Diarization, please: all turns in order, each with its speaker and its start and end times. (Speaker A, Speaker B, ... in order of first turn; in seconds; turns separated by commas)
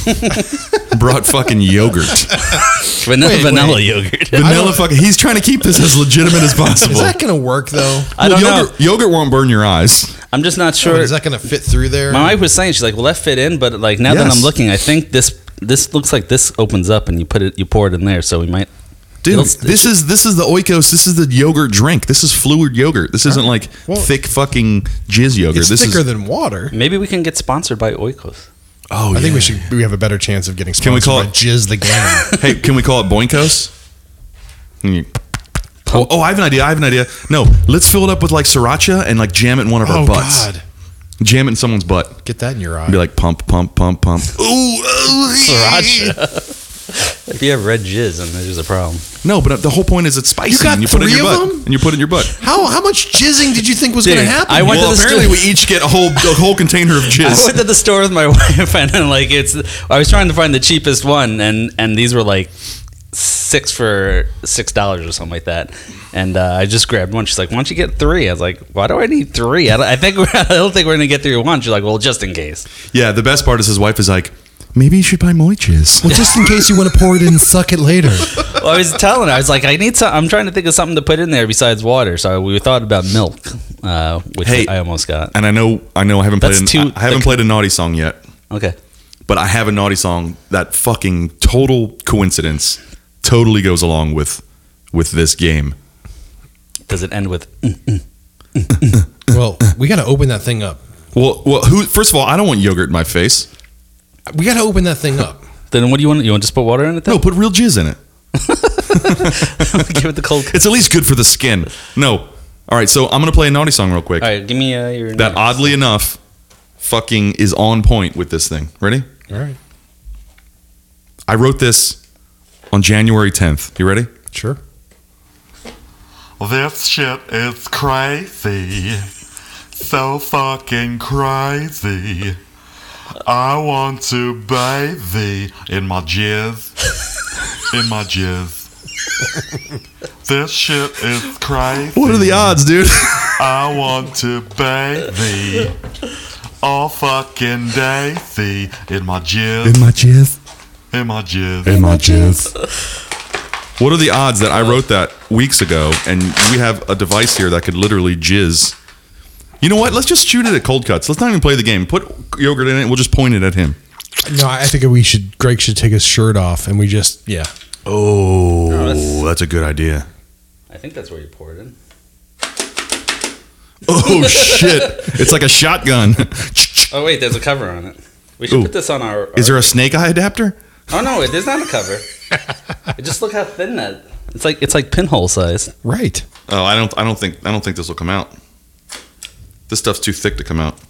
Speaker A: 0.9-2.6, Speaker B: 2.5-4.9, Speaker C: 2.9-4.6, Speaker A: 4.3-7.2, Speaker B: 6.5-8.1, Speaker C: 8.2-8.7, Speaker A: 8.2-10.2, Speaker C: 10.3-11.2, Speaker B: 10.8-12.3, Speaker C: 12.1-18.7, Speaker A: 14.0-14.5, Speaker A: 19.2-26.0, Speaker C: 19.3-19.9, Speaker B: 23.2-24.1, Speaker B: 25.5-26.7, Speaker C: 26.7-28.5, Speaker A: 28.9-29.7, Speaker B: 29.1-32.4, Speaker A: 30.8-31.3, Speaker A: 32.3-33.7, Speaker A: 34.8-35.1, Speaker A: 35.9-40.5, Speaker B: 39.8-40.6, Speaker A: 41.2-42.2, Speaker B: 42.2-43.0, Speaker A: 42.9-46.1, Speaker B: 44.8-45.7, Speaker C: 45.4-49.0, Speaker A: 49.2-52.4, Speaker B: 50.5-51.8, Speaker B: 52.3-55.4, Speaker C: 54.0-56.4, Speaker A: 54.5-57.6, Speaker C: 57.1-62.5, Speaker C: 63.1-72.7, Speaker A: 72.9-76.2, Speaker B: 76.0-78.4, Speaker C: 78.4-85.3, Speaker A: 84.4-84.7, Speaker A: 85.3-88.2, Speaker C: 86.4-87.4, Speaker C: 88.5-88.8, Speaker A: 89.3-95.8, Speaker C: 96.9-98.0, Speaker C: 98.6-99.0, Speaker B: 99.3-100.8, Speaker A: 101.1-103.5, Speaker B: 104.3-105.4, Speaker C: 105.7-107.2, Speaker A: 107.0-108.0, Speaker C: 108.3-110.8, Speaker A: 108.9-114.3, Speaker C: 114.2-115.7, Speaker A: 115.2-116.2, Speaker A: 116.8-119.1, Speaker B: 119.3-119.6, Speaker A: 121.3-122.0, Speaker A: 122.7-124.1, Speaker B: 124.3-124.6, Speaker D: 126.4-129.1, Speaker D: 129.7-132.4, Speaker D: 133.2-136.7, Speaker D: 137.7-138.7, Speaker D: 140.2-142.6, Speaker A: 141.9-143.4, Speaker D: 143.2-145.7, Speaker D: 146.6-149.9, Speaker A: 149.6-150.4, Speaker D: 150.9-152.6, Speaker A: 151.6-152.5, Speaker A: 153.8-158.7, Speaker A: 159.6-163.8, Speaker B: 164.2-167.5, Speaker A: 167.8-170.1, Speaker C: 168.7-169.2, Speaker C: 170.7-171.7, Speaker A: 173.8-176.9, Speaker C: 174.1-175.1, Speaker C: 176.9-179.8, Speaker A: 178.5-178.7, Speaker A: 179.3-180.6, Speaker C: 180.9-182.0, Speaker C: 182.9-185.7, Speaker B: 185.8-186.2, Speaker A: 186.5-188.3, Speaker A: 189.7-190.8